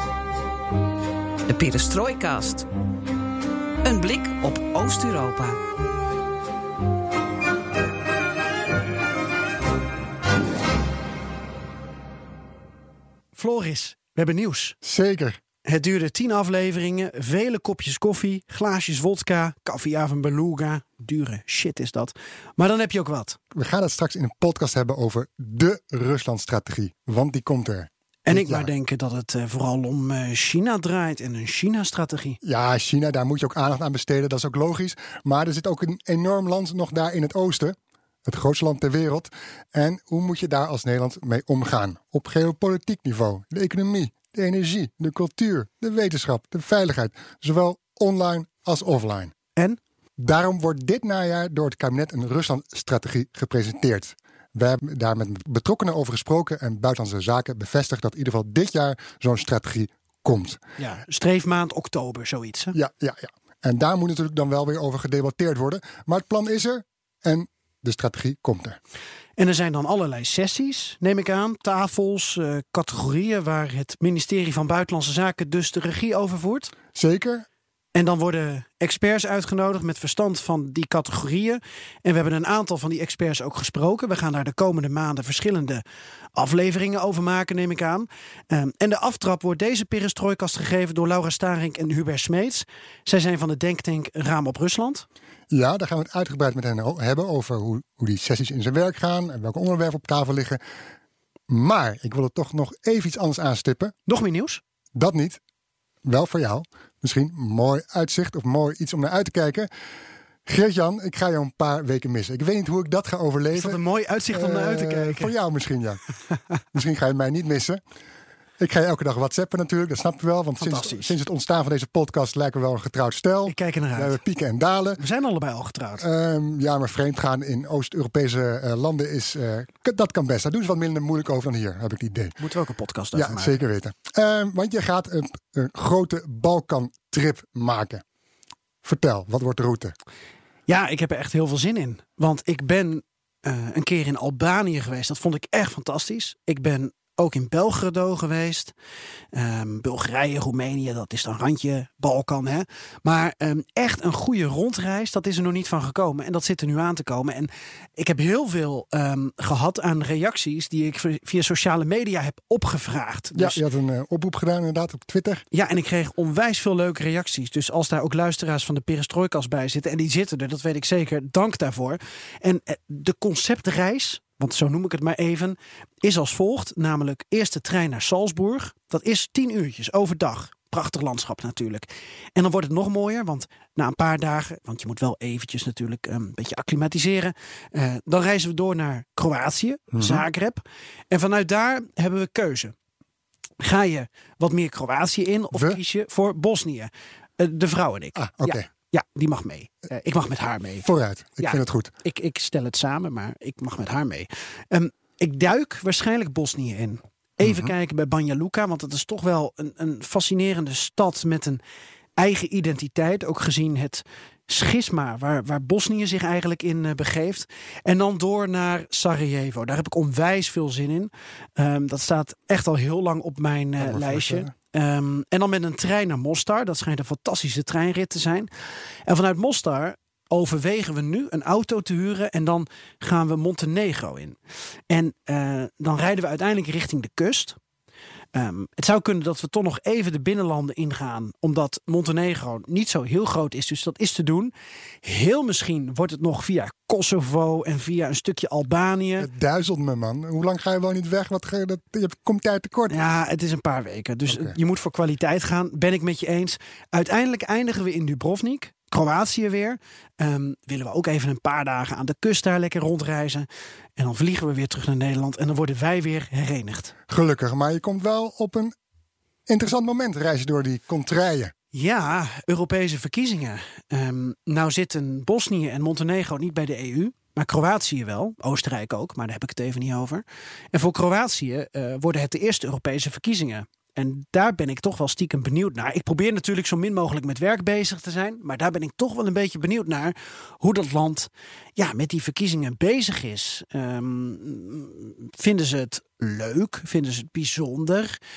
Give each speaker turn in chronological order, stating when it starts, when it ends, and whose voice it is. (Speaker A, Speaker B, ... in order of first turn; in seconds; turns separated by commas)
Speaker A: 1.5-2.7, Speaker A: 3.8-5.6, Speaker B: 13.3-14.8, Speaker C: 14.8-15.4, Speaker B: 15.7-23.4, Speaker C: 23.5-28.7, Speaker B: 28.3-32.4, Speaker C: 32.4-49.3, Speaker C: 50.2-60.6, Speaker B: 60.8-62.8, Speaker C: 62.8-68.8, Speaker B: 69.4-76.7, Speaker C: 76.9-77.5, Speaker B: 77.9-85.8, Speaker B: 86.3-95.1, Speaker C: 95.5-100.6, Speaker C: 101.5-103.9, Speaker B: 104.1-104.6, Speaker C: 105.0-105.4, Speaker C: 106.0-109.7, Speaker C: 110.5-113.8, Speaker B: 113.5-115.3, Speaker C: 114.3-116.0, Speaker C: 116.7-117.8, Speaker C: 118.6-125.0, Speaker B: 120.6-121.2, Speaker B: 123.5-124.2, Speaker B: 125.0-126.0, Speaker C: 126.0-132.4, Speaker B: 132.4-133.6, Speaker C: 133.2-138.0, Speaker C: 138.8-139.9, Speaker B: 140.7-148.7, Speaker B: 149.3-163.6, Speaker C: 163.3-165.4, Speaker B: 165.5-192.7, Speaker C: 189.9-190.2, Speaker B: 193.6-200.9, Speaker C: 198.2-198.7, Speaker C: 200.8-201.9, Speaker B: 201.4-211.6, Speaker C: 207.4-207.7, Speaker B: 212.2-228.5, Speaker C: 223.8-224.5, Speaker B: 229.1-237.6, Speaker B: 238.3-249.3, Speaker C: 249.2-253.0, Speaker B: 252.9-266.9, Speaker C: 254.3-254.6, Speaker C: 267.1-268.7, Speaker C: 269.5-271.5, Speaker B: 271.7-298.2